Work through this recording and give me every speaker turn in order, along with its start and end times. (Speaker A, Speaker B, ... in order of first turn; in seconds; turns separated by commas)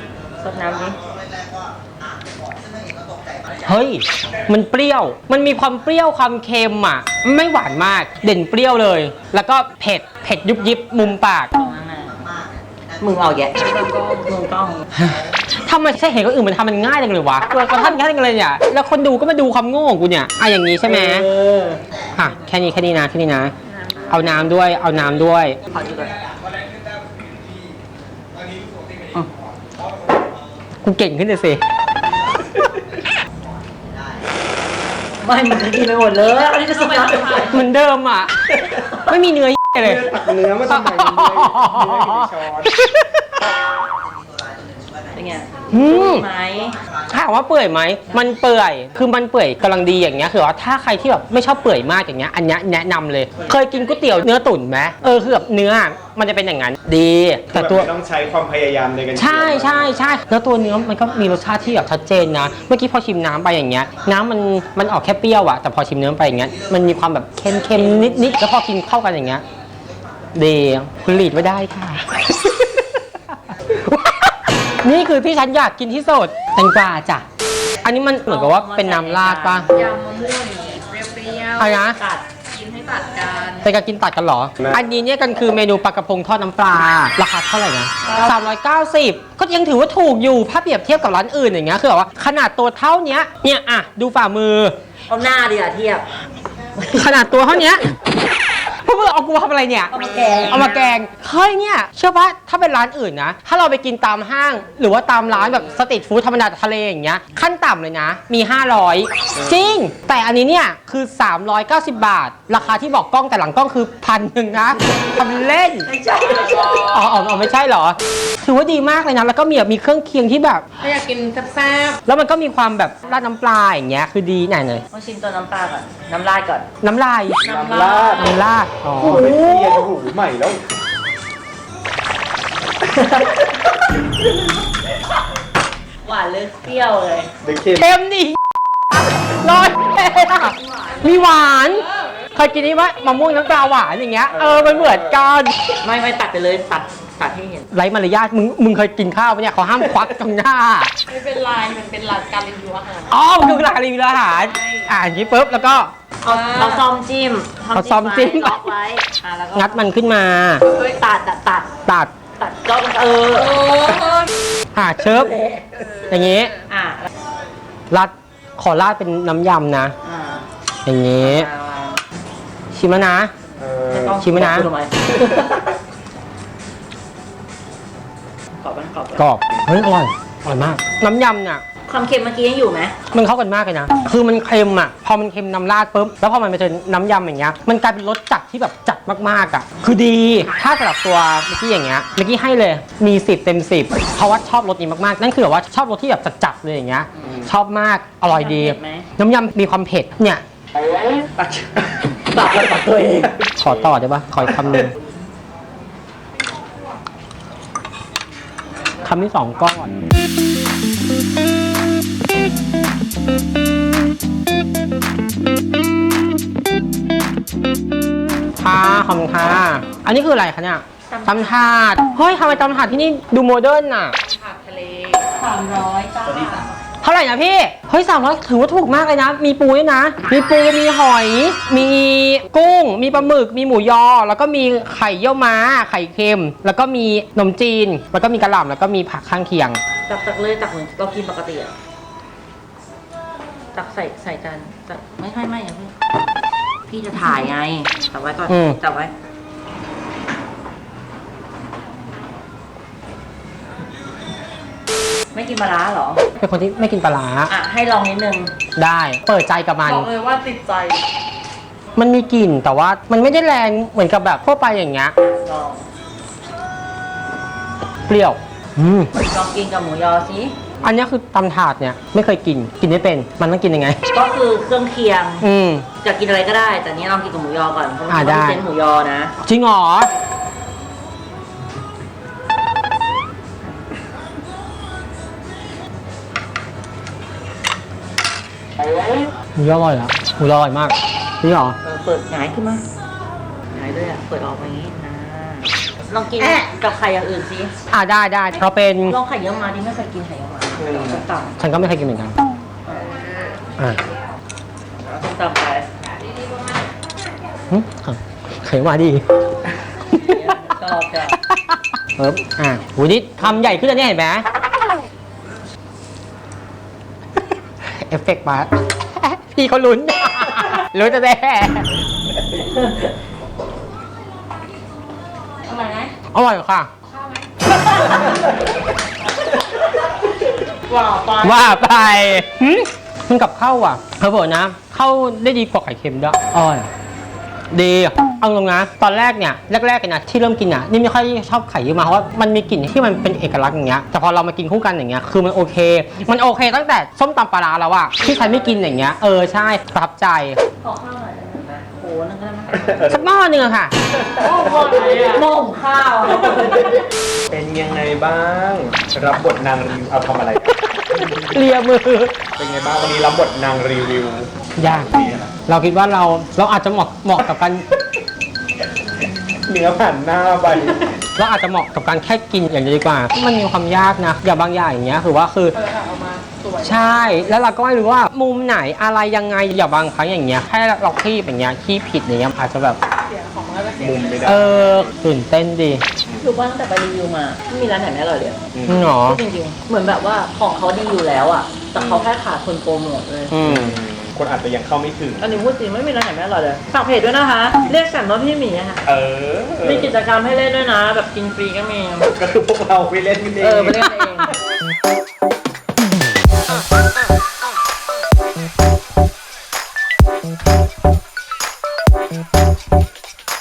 Speaker A: 0.4-1.0, Speaker B: 3.6-11.5, Speaker A: 11.6-12.3, Speaker A: 13.0-14.9, Speaker B: 14.9-21.3, Speaker A: 20.8-21.8, Speaker B: 22.2-23.5, Speaker A: 23.8-24.5, Speaker B: 24.1-25.6, Speaker A: 25.7-26.2, Speaker B: 30.8-31.6, Speaker A: 35.2-37.6, Speaker B: 37.4-43.4, Speaker C: 39.8-42.8, Speaker A: 45.1-46.8, Speaker B: 45.7-46.3, Speaker B: 47.1-57.9, Speaker C: 57.5-60.0, Speaker B: 59.1-69.4, Speaker A: 67.6-68.4, Speaker B: 70.3-77.2, Speaker B: 77.8-79.8, Speaker A: 78.3-80.0, Speaker D: 79.9-81.6, Speaker B: 81.6-82.0, Speaker A: 82.0-82.2, Speaker D: 82.6-83.6, Speaker B: 83.6-94.8, Speaker A: 88.1-88.3, Speaker A: 95.1-96.1, Speaker A: 96.8-97.1, Speaker B: 96.9-97.9, Speaker B: 98.7-99.9, Speaker A: 99.9-101.0, Speaker B: 100.5-115.9, Speaker A: 115.9-116.9, Speaker B: 116.7-120.7, Speaker D: 120.9-122.0, Speaker B: 122.0-124.8, Speaker A: 124.9-126.7, Speaker B: 126.8-127.4, Speaker A: 127.4-128.3, Speaker C: 127.4-128.4, Speaker B: 128.1-129.9, Speaker C: 129.0-130.6, Speaker A: 132.9-133.4, Speaker A: 136.0-137.3, Speaker C: 137.4-137.9, Speaker B: 137.8-145.5, Speaker C: 144.3-145.2, Speaker A: 145.8-147.7, Speaker B: 147.7-150.9, Speaker D: 151.1-153.1, Speaker B: 153.1-155.9, Speaker A: 156.2-159.9, Speaker B: 157.7-158.6, Speaker B: 159.6-160.7, Speaker A: 160.8-161.7, Speaker B: 161.9-162.1, Speaker A: 162.4-164.1, Speaker B: 164.8-165.4, Speaker A: 165.3-165.8, Speaker B: 166.1-166.5, Speaker A: 166.7-167.1, Speaker B: 167.9-169.9, Speaker A: 170.0-170.5, Speaker B: 170.8-171.5, Speaker A: 171.2-172.0, Speaker B: 172.7-173.3, Speaker C: 173.6-174.2, Speaker A: 173.9-175.7, Speaker B: 174.2-174.7, Speaker A: 178.6-179.3, Speaker B: 179.2-181.6, Speaker A: 181.9-182.9, Speaker B: 183.1-200.4, Speaker A: 198.3-199.1, Speaker A: 202.2-203.3, Speaker C: 203.4-203.9, Speaker B: 203.6-204.9, Speaker C: 204.6-204.9, Speaker B: 209.0-209.9, Speaker B: 218.6-224.2, Speaker A: 221.1-221.9, Speaker D: 224.4-225.2, Speaker A: 225.2-226.7, Speaker B: 227.0-239.8, Speaker A: 240.1-241.7, Speaker A: 243.7-245.9, Speaker A: 246.9-249.1, Speaker B: 248.5-248.8, Speaker A: 255.3-256.2, Speaker B: 256.4-257.5, Speaker A: 257.5-258.5, Speaker B: 258.8-260.1, Speaker D: 259.9-261.0, Speaker B: 262.0-265.1, Speaker A: 265.2-265.9, Speaker B: 268.1-269.1, Speaker A: 269.2-270.6, Speaker B: 270.8-274.0, Speaker A: 274.1-275.5, Speaker B: 275.4-275.9, Speaker A: 276.0-279.3, Speaker B: 278.1-278.6, Speaker B: 279.4-280.1, Speaker B: 289.6-291.8, Speaker A: 291.8-292.8, Speaker A: 293.7-297.7, Speaker B: 297.9-299.2, Speaker A: 299.1-301.6, Speaker C: 300.8-301.2, Speaker B: 301.6-302.4, Speaker A: 302.9-303.4, Speaker A: 305.1-305.9, Speaker B: 307.7-309.2, Speaker A: 310.1-311.4, Speaker B: 311.4-314.4, Speaker B: 317.8-321.9, Speaker A: 322.5-323.1, Speaker A: 325.6-326.1, Speaker B: 326.3-326.9, Speaker A: 330.9-331.7, Speaker B: 331.4-336.9, Speaker B: 337.7-350.6, Speaker A: 348.2-348.8, Speaker A: 350.8-353.1, Speaker C: 352.7-353.2, Speaker B: 353.1-353.9, Speaker C: 354.2-354.9, Speaker A: 354.4-357.1, Speaker C: 357.5-360.8, Speaker B: 361.3-362.4, Speaker C: 362.6-365.5, Speaker B: 364.8-365.1, Speaker B: 365.7-367.9, Speaker C: 369.4-371.1, Speaker B: 371.4-375.8, Speaker D: 375.9-377.2, Speaker B: 376.8-383.0, Speaker D: 383.3-384.2, Speaker C: 383.9-385.1, Speaker B: 384.4-386.1, Speaker A: 386.4-393.6, Speaker C: 388.7-389.1, Speaker B: 388.9-389.4, Speaker C: 392.0-392.3, Speaker B: 393.5-394.0, Speaker C: 393.6-395.5, Speaker A: 395.4-399.0, Speaker C: 399.1-400.1, Speaker A: 399.8-402.3, Speaker C: 402.3-404.5, Speaker A: 403.6-404.6